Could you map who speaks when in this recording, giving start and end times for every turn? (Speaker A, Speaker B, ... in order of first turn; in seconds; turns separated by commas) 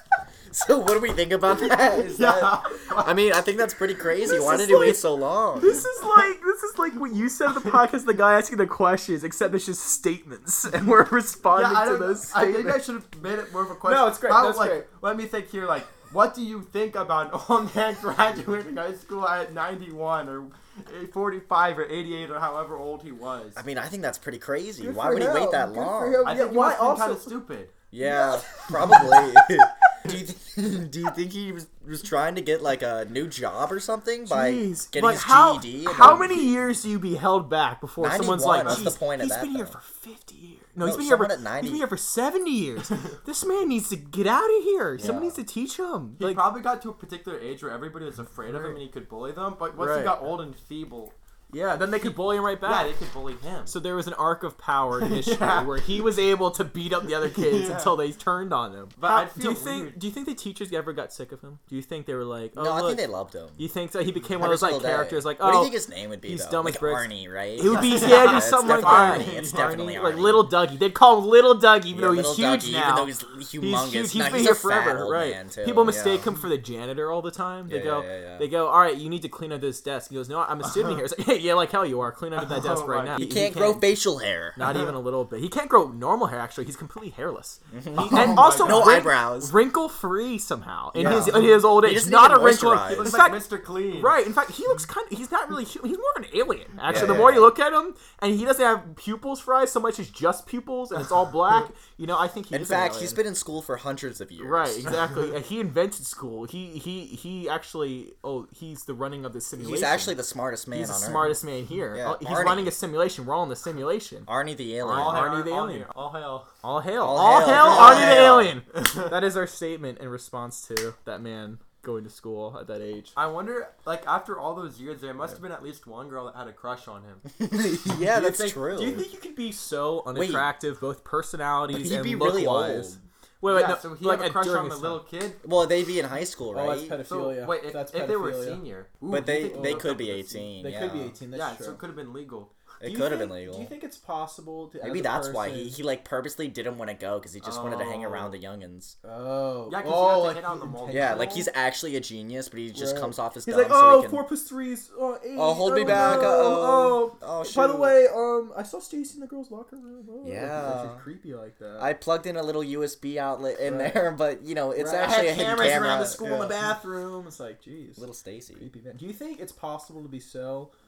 Speaker A: 0.5-5.8, Speaker B: 2.0-3.2, Speaker C: 4.2-12.8, Speaker B: 11.5-23.6, Speaker C: 13.8-14.9, Speaker A: 23.6-26.3, Speaker C: 24.8-27.3, Speaker B: 26.2-27.7, Speaker A: 27.9-36.6, Speaker C: 28.0-29.6, Speaker C: 34.2-46.4, Speaker A: 38.0-39.8, Speaker B: 38.6-38.9, Speaker A: 40.8-41.9, Speaker A: 45.0-45.4, Speaker B: 46.2-51.1, Speaker C: 48.5-48.8, Speaker C: 49.8-50.2, Speaker C: 51.5-52.9, Speaker B: 51.8-53.7, Speaker C: 53.7-63.0, Speaker B: 55.0-56.0, Speaker B: 57.2-58.0, Speaker B: 59.0-60.0, Speaker A: 62.5-63.6, Speaker C: 63.6-84.0, Speaker A: 64.4-70.6, Speaker B: 67.6-69.7, Speaker A: 71.9-76.3, Speaker A: 77.7-78.5, Speaker B: 80.6-81.0, Speaker B: 82.3-83.4, Speaker A: 83.2-84.8, Speaker C: 84.5-103.2, Speaker A: 87.7-89.6, Speaker B: 88.0-89.1, Speaker A: 90.9-93.1, Speaker B: 91.0-91.4, Speaker B: 92.8-94.2, Speaker A: 96.9-97.5, Speaker A: 102.5-104.9, Speaker C: 104.4-110.2, Speaker A: 109.6-111.4, Speaker C: 110.7-114.3, Speaker A: 111.9-112.8, Speaker A: 114.3-115.2, Speaker C: 114.8-115.9, Speaker B: 114.8-116.5, Speaker C: 116.6-123.1, Speaker A: 117.0-118.6, Speaker B: 117.4-119.1, Speaker B: 123.1-127.2, Speaker A: 127.4-129.0, Speaker B: 128.0-128.6, Speaker C: 128.7-135.0, Speaker A: 130.1-130.5, Speaker A: 131.7-133.0, Speaker B: 133.4-135.4, Speaker A: 135.4-137.0, Speaker C: 136.5-138.6, Speaker B: 137.1-140.5, Speaker A: 139.1-141.2, Speaker C: 139.1-139.9, Speaker C: 140.6-141.8, Speaker B: 141.3-142.5, Speaker A: 142.8-143.7, Speaker C: 142.8-145.8, Speaker A: 144.8-148.9, Speaker B: 147.4-148.3, Speaker C: 149.0-151.5, Speaker B: 149.7-151.3, Speaker A: 150.9-154.2, Speaker C: 152.7-161.9, Speaker A: 155.3-158.0, Speaker B: 155.8-156.3, Speaker A: 160.2-161.1, Speaker A: 161.8-166.6, Speaker C: 163.6-164.1, Speaker C: 164.7-168.0, Speaker A: 168.0-168.7, Speaker C: 168.6-170.7